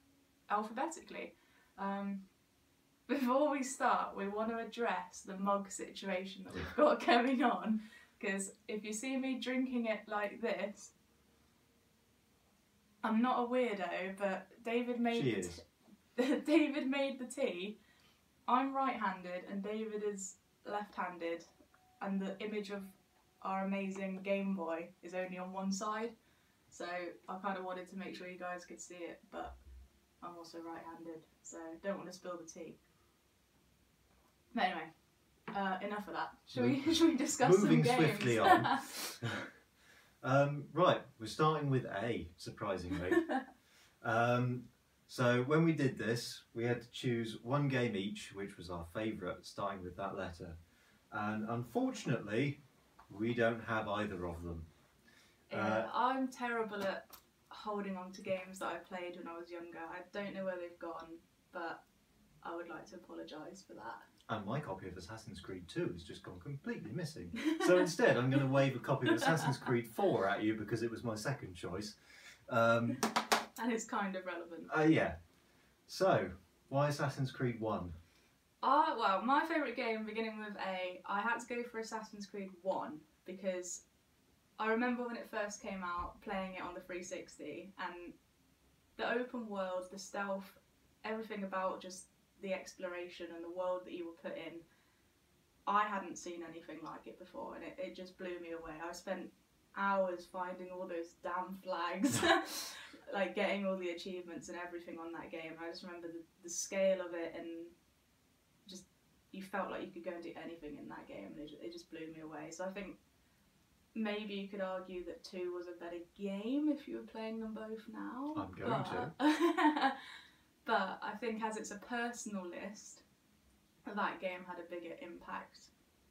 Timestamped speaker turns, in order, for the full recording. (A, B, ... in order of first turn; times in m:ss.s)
0:00.5-0:02.2 A
0:03.1-0:10.9 A
0:13.0-0:15.6 A
0:15.1-0:15.6 B
0:16.2-0:17.8 A
0:18.5-0:21.5 A
0:22.0-0:26.2 A
0:26.7-0:29.6 A
0:30.2-0:32.8 A
0:34.5-0:34.9 A
0:35.5-0:39.1 A
0:36.5-0:39.5 B
0:40.2-0:43.2 B
0:43.1-0:43.4 A
0:44.0-0:50.6 B
0:51.1-0:54.7 B
0:55.5-1:01.8 A
0:55.5-0:55.9 B
1:02.4-1:04.1 A
1:04.3-1:12.0 B
1:07.4-1:07.9 A
1:09.1-1:09.6 A
1:12.5-1:13.0 B
1:13.6-1:14.8 A
1:14.7-1:15.2 B
1:15.9-1:18.0 B
1:18.6-1:23.8 A
1:24.6-1:28.2 A
1:29.0-1:34.6 A
1:35.7-1:47.8 A
1:48.7-1:53.0 A
1:54.0-2:00.0 A
1:58.3-1:59.1 B
2:00.6-2:03.0 A
2:03.9-2:05.7 A